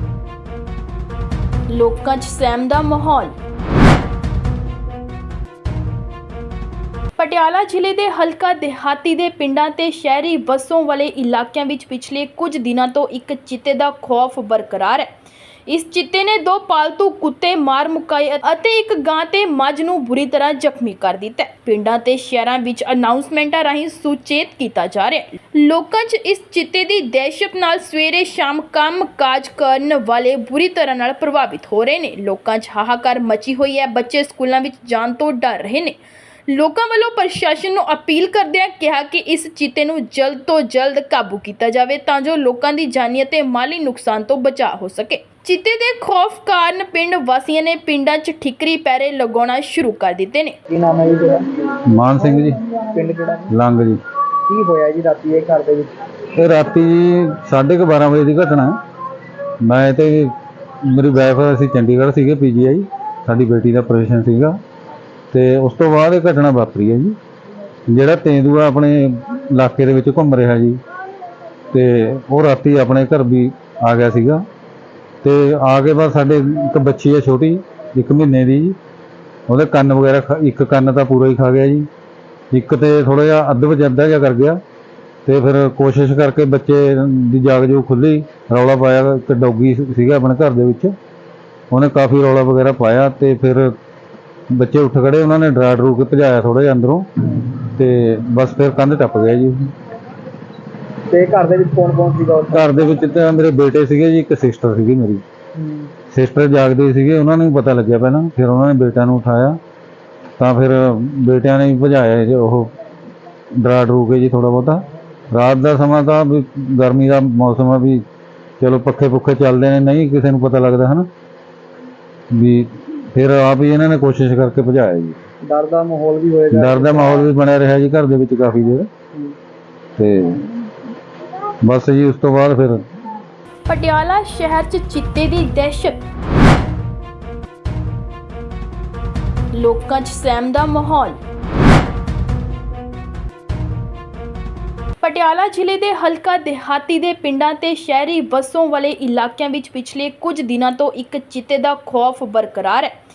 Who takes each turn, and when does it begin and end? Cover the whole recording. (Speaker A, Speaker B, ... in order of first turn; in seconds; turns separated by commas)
Speaker A: 1.7-3.3, Speaker A: 7.2-15.1, Speaker A: 15.7-36.0, Speaker A: 36.5-50.5, Speaker B: 50.7-51.4, Speaker C: 51.8-52.6, Speaker B: 52.9-53.5, Speaker C: 53.5-54.0, Speaker B: 54.5-55.9, Speaker C: 56.3-58.7, Speaker C: 59.6-60.3, Speaker C: 60.9-64.6, Speaker C: 65.3-67.2, Speaker C: 67.9-70.8, Speaker C: 71.7-74.4, Speaker C: 75.2-78.8, Speaker C: 79.5-81.9, Speaker C: 82.5-84.6, Speaker C: 85.2-90.9, Speaker C: 91.7-93.7, Speaker C: 94.5-99.7, Speaker B: 101.1-102.7, Speaker C: 102.5-105.2, Speaker B: 105.5-105.9, Speaker C: 106.1-109.6, Speaker C: 110.4-112.7, Speaker C: 113.6-118.0, Speaker C: 118.6-121.1, Speaker C: 122.3-125.2, Speaker B: 125.4-127.2, Speaker C: 126.5-128.9, Speaker C: 130.0-130.5, Speaker C: 131.6-132.8, Speaker A: 133.7-136.0, Speaker A: 139.5-141.2, Speaker A: 145.0-152.9